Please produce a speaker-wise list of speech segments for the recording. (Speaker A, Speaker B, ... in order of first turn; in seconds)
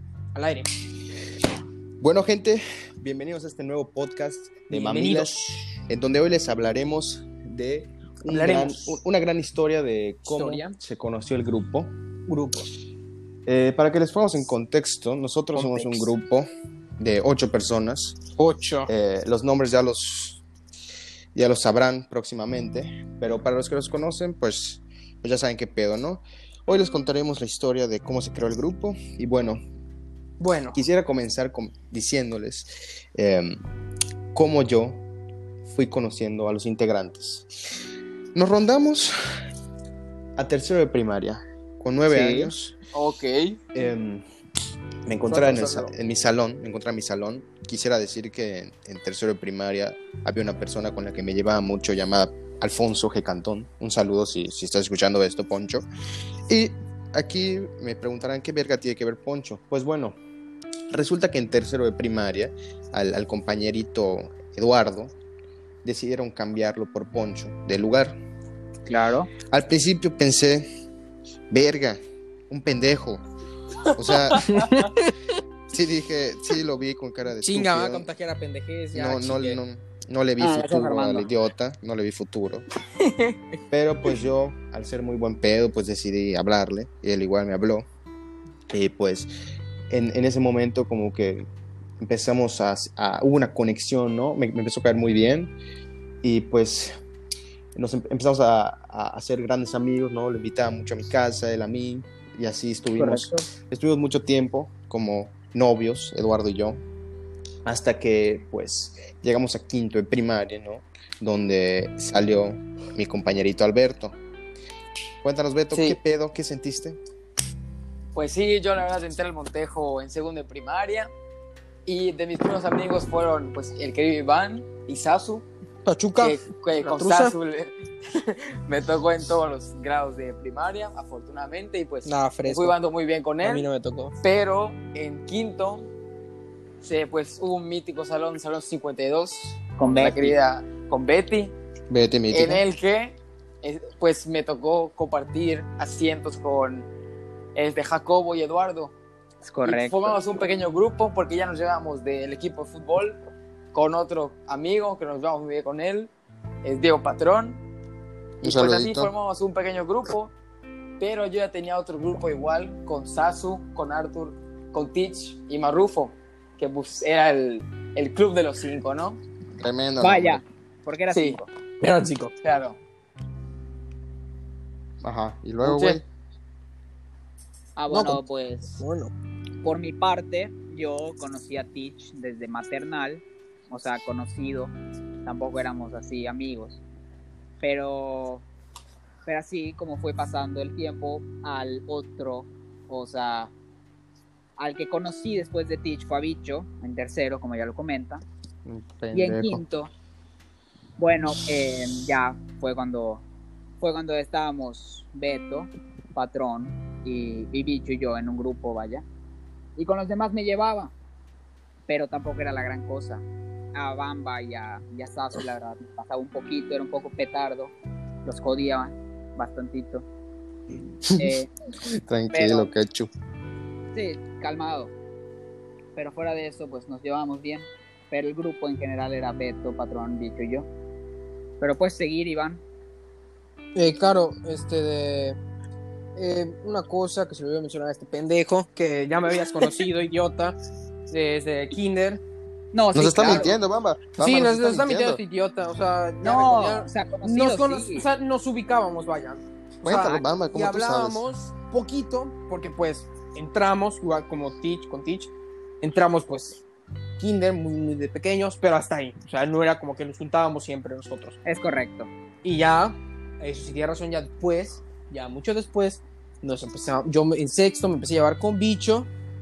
Speaker A: 0.3-0.7, 4.7-5.6, 8.3-9.0, 10.3-10.8, 12.3-12.7, 15.5-16.1, 18.4-18.9, 30.4-30.8, 45.3-45.9, 77.3-79.6, 125.8-127.3, 132.0-132.8, 133.4-134.2, 171.8-172.3, 177.9-178.2, 178.7-179.1, 233.7-235.4, 236.2-240.6, 241.1-242.2, 243.2-243.5, 244.2-256.6, 257.2-261.4, 262.4-269.1
Speaker B: 2.0-5.3, 5.9-11.9, 13.4-16.5, 17.0-18.2, 18.9-20.4, 21.3-29.6, 30.7-33.6, 34.3-35.0, 35.7-37.5, 38.3-39.1, 40.4-42.8, 43.7-44.2, 45.0-55.9, 56.5-60.2, 60.9-65.2, 65.8-68.2, 69.5-70.7, 71.5-73.2, 73.9-74.7, 75.7-78.1, 78.9-82.7, 83.7-87.8, 88.7-89.3, 89.9-91.5, 92.0-95.5, 96.2-97.0, 97.7-106.8, 107.6-114.2, 115.2-117.0, 141.9-142.6, 158.4-159.1, 169.6-170.4, 175.0-176.0, 198.6-199.6, 221.1-221.3, 221.9-223.1, 242.9-245.2, 249.8-251.2
Speaker C: 42.1-42.5, 68.8-69.3, 80.4-81.3, 103.0-103.4, 139.8-140.4, 149.4-150.2, 170.0-171.5, 177.8-178.8, 179.6-186.8, 187.6-188.4, 189.2-193.5, 194.6-198.2, 199.1-199.9, 201.0-203.2, 203.8-209.1, 209.8-210.9, 211.9-217.7, 218.2-220.1, 221.2-221.5, 222.3-222.7, 223.9-224.9, 225.9-230.7, 231.6-232.6, 242.7-243.6, 246.2-248.1, 249.9-250.2, 261.4-262.1
Speaker D: 42.9-43.6, 74.4-74.6, 83.0-83.3, 115.7-116.0, 118.1-121.1, 121.8-125.5, 126.2-133.7, 134.2-135.9, 136.8-141.6, 142.3-146.9, 147.5-148.9, 149.6-153.2, 153.7-156.1, 156.6-157.6, 158.4-160.3, 161.0-169.2, 171.1-171.4, 172.4-172.8, 175.6-176.0